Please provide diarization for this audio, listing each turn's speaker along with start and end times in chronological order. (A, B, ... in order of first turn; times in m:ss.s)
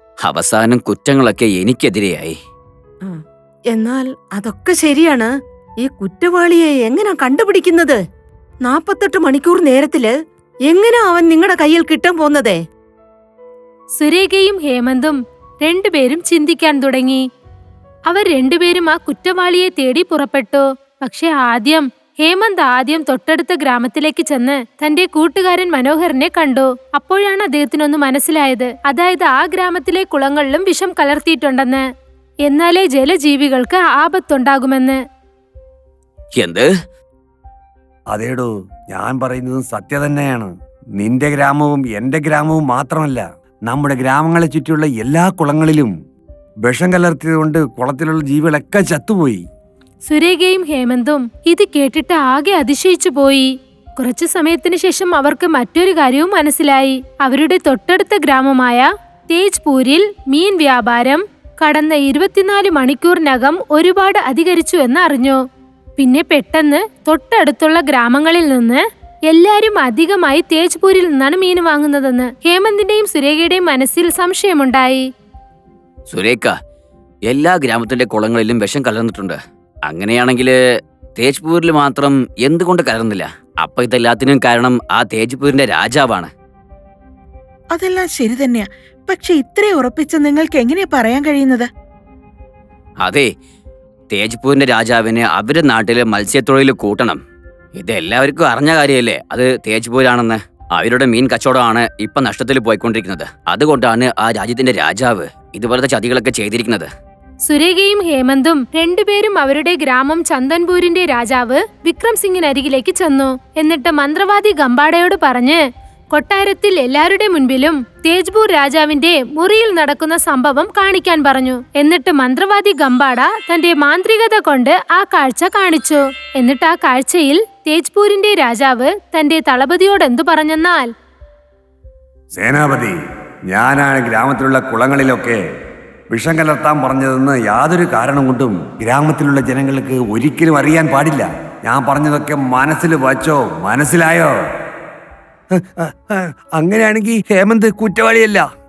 0:00.2-0:02.4 A
0:03.7-0:05.3 B
0:05.8-0:08.0 B
0:08.6-0:10.1 B
0:10.7-0:12.6 B
0:14.0-0:17.2 C
0:18.1-0:31.8 C
0:32.4-0:35.0 C
0:36.3-0:36.7 A
0:38.1-0:45.9 D
0:46.6-0:49.4 D
0:50.0-1:05.4 C
1:06.0-1:15.0 C
1:16.1-1:16.5 A
1:17.3-1:20.5 A
1:21.2-1:26.3 A
1:27.7-1:31.7 E
1:33.0-1:33.3 A
1:34.1-1:37.2 A
1:37.8-1:46.9 A
1:47.4-1:55.6 C
1:56.1-2:10.9 C
2:12.3-2:13.0 D
2:13.5-2:15.4 D
2:16.1-2:24.3 D
2:25.6-2:28.4 D